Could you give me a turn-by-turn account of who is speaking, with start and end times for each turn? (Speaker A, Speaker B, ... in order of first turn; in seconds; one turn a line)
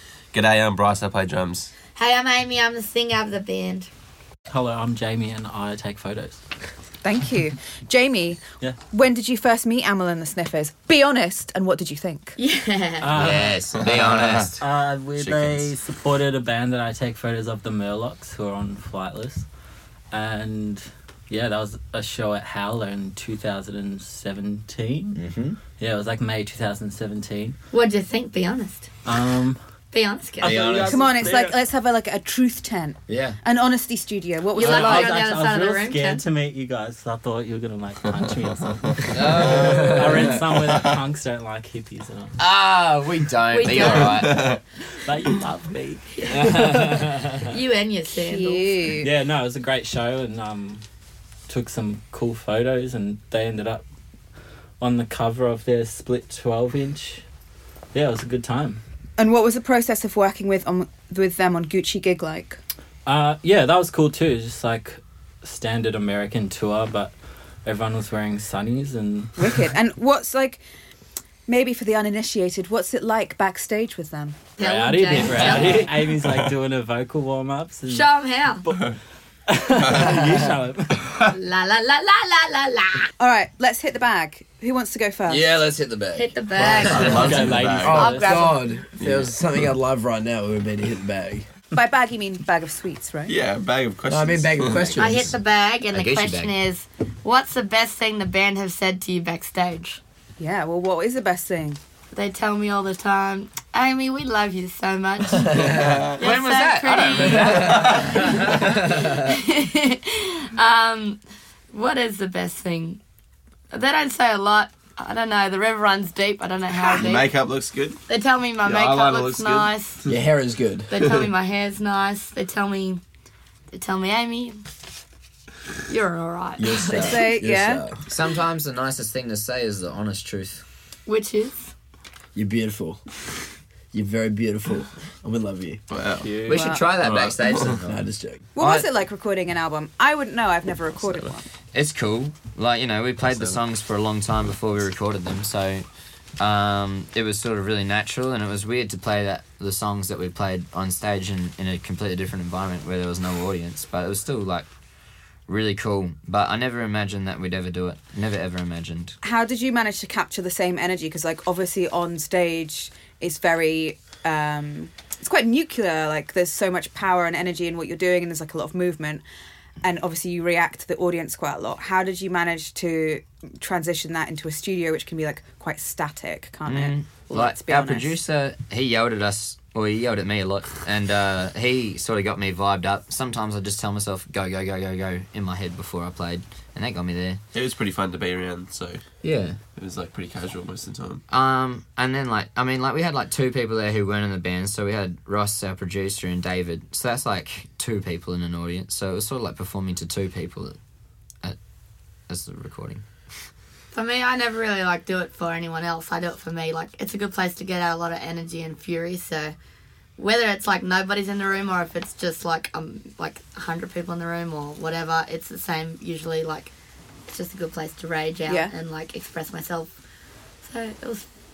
Speaker A: 0.3-1.7
Speaker B: 1.9-3.9
Speaker C: 4.5-6.4
Speaker D: 7.0-12.3
Speaker B: 12.4-13.1
Speaker C: 13.0-13.9
Speaker E: 13.2-14.6
Speaker A: 13.8-14.5
Speaker C: 14.6-19.5
Speaker E: 15.2-15.7
Speaker C: 20.1-25.2
Speaker E: 25.1-25.6
Speaker C: 25.8-27.6
Speaker B: 27.7-28.9
Speaker C: 29.1-29.6
Speaker B: 29.9-30.6
Speaker C: 30.4-31.6
Speaker E: 30.4-31.1
Speaker D: 30.9-35.2
Speaker E: 33.1-33.4
Speaker B: 34.5-36.2
Speaker C: 34.5-42.4
Speaker A: 38.9-39.9
Speaker E: 39.1-40.1
Speaker E: 42.4-44.5
Speaker B: 43.5-44.5
Speaker A: 43.7-44.6
Speaker C: 45.0-47.5
Speaker B: 46.2-46.6
Speaker B: 47.4-48.9
Speaker D: 48.2-49.1
Speaker C: 49.0-50.8
Speaker C: 51.5-53.8
Speaker C: 54.8-57.2
Speaker C: 57.9-58.8
Speaker D: 59.2-62.6
Speaker C: 63.1-67.1
Speaker C: 67.7-69.7
Speaker D: 69.4-70.6
Speaker D: 71.5-74.5
Speaker B: 74.6-76.1
Speaker C: 74.6-78.1
Speaker A: 76.2-76.5
Speaker B: 77.9-78.7
Speaker A: 78.7-79.0
Speaker C: 79.5-81.2
Speaker A: 79.8-80.2
Speaker B: 81.3-83.1
Speaker D: 83.2-85.5
Speaker E: 85.3-86.3
Speaker B: 86.1-88.5
Speaker F: 86.6-87.1
Speaker A: 86.6-88.0
Speaker E: 86.8-87.3
Speaker C: 87.1-88.2
Speaker F: 87.8-91.5
Speaker D: 88.0-88.6
Speaker A: 89.0-89.6
Speaker D: 91.7-93.4
Speaker A: 93.3-95.0
Speaker F: 94.1-95.4
Speaker E: 94.7-95.1
Speaker B: 95.0-100.0
Speaker E: 95.9-96.5
Speaker D: 100.4-101.8
Speaker B: 102.1-111.2
Speaker F: 105.5-106.0
Speaker A: 105.5-106.2
Speaker E: 106.2-108.8
Speaker D: 106.5-107.7
Speaker F: 107.3-107.9
Speaker A: 107.7-108.0
Speaker F: 108.6-109.4
Speaker B: 111.7-113.0
Speaker B: 113.7-117.3
Speaker A: 116.7-118.0
Speaker B: 118.1-120.0
Speaker A: 118.6-120.1
Speaker F: 120.1-120.9
Speaker B: 120.9-123.0
Speaker B: 123.7-124.6
Speaker B: 125.9-127.2
Speaker F: 126.6-128.0
Speaker D: 126.8-127.8
Speaker E: 128.1-130.6
Speaker B: 131.1-131.7
Speaker F: 132.3-133.0
Speaker F: 133.9-135.8
Speaker A: 135.9-136.5
Speaker C: 136.2-136.7
Speaker E: 136.5-138.0
Speaker D: 136.5-136.9
Speaker A: 137.0-137.8
Speaker F: 137.8-138.9
Speaker D: 138.6-141.5
Speaker E: 141.7-145.8
Speaker A: 143.2-143.6
Speaker E: 146.4-154.7
Speaker E: 155.5-159.2
Speaker D: 159.2-169.2
Speaker D: 169.8-178.2
Speaker E: 176.7-187.4
Speaker A: 187.5-189.0
Speaker E: 189.2-189.6
Speaker A: 189.8-191.2
Speaker E: 191.3-200.8
Speaker E: 202.3-203.0
Speaker B: 203.9-209.6
Speaker B: 210.2-216.7
Speaker B: 217.3-219.9
Speaker D: 218.5-218.7
Speaker B: 220.6-221.2